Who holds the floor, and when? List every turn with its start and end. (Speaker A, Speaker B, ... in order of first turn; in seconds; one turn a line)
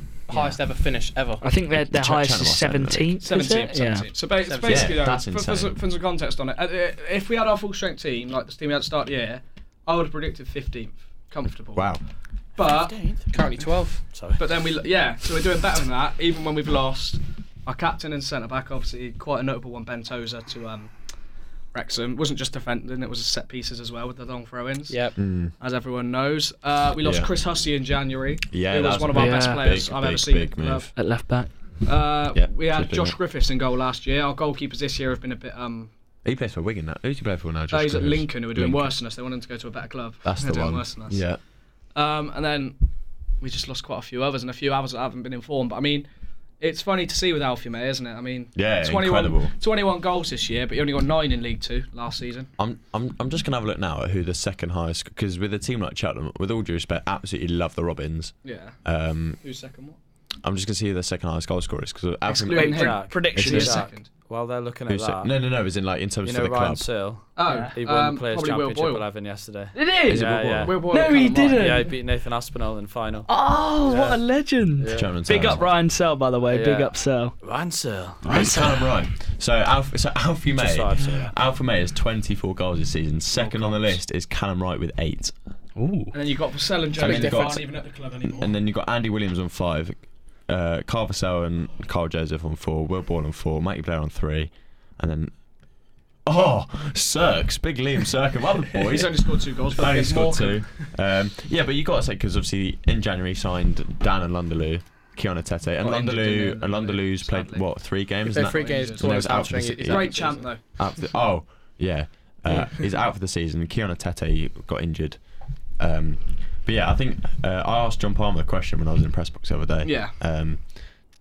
Speaker A: 0.3-1.4
Speaker B: 1.4-4.1
Speaker C: 1.8-3.2
Speaker D: 3.2-11.9
Speaker A: 4.4-5.0
Speaker C: 4.6-5.8
Speaker C: 11.8-12.0
Speaker D: 12.5-13.3
Speaker E: 12.6-13.3
Speaker A: 13.3-14.1
Speaker E: 14.1-14.4
Speaker D: 14.3-20.9
Speaker D: 21.7-30.9
Speaker A: 24.9-25.1
Speaker C: 25.1-25.5
Speaker C: 27.0-27.3
Speaker C: 28.5-30.9
Speaker B: 29.1-29.7
Speaker B: 30.9-31.5
Speaker D: 31.8-35.9
Speaker C: 32.3-33.1
Speaker C: 36.2-38.9
Speaker D: 37.7-41.2
Speaker C: 40.2-41.4
Speaker D: 41.9-42.8
Speaker D: 43.4-46.1
Speaker D: 46.6-52.5
Speaker C: 48.5-49.5
Speaker C: 52.6-59.4
Speaker D: 58.4-58.8
Speaker D: 59.4-60.0
Speaker C: 60.4-63.9
Speaker D: 62.3-64.1
Speaker B: 62.5-63.8
Speaker E: 62.6-65.4
Speaker C: 64.9-66.9
Speaker E: 66.2-70.8
Speaker D: 67.3-69.1
Speaker B: 67.5-67.7
Speaker B: 69.7-71.9
Speaker C: 70.1-70.8
Speaker D: 70.6-71.8
Speaker E: 71.5-75.7
Speaker B: 73.3-77.4
Speaker C: 74.9-75.7
Speaker E: 76.5-78.2
Speaker B: 78.2-78.9
Speaker C: 78.2-85.3
Speaker E: 80.5-81.3
Speaker D: 83.3-84.0
Speaker B: 85.8-86.1
Speaker D: 86.1-88.5
Speaker C: 86.9-95.3
Speaker A: 87.0-87.6
Speaker C: 96.2-115.2
Speaker D: 98.8-100.9
Speaker D: 105.8-107.7
Speaker A: 108.2-110.5
Speaker D: 108.3-110.8
Speaker D: 112.5-112.9
Speaker C: 115.8-120.8
Speaker D: 119.8-120.2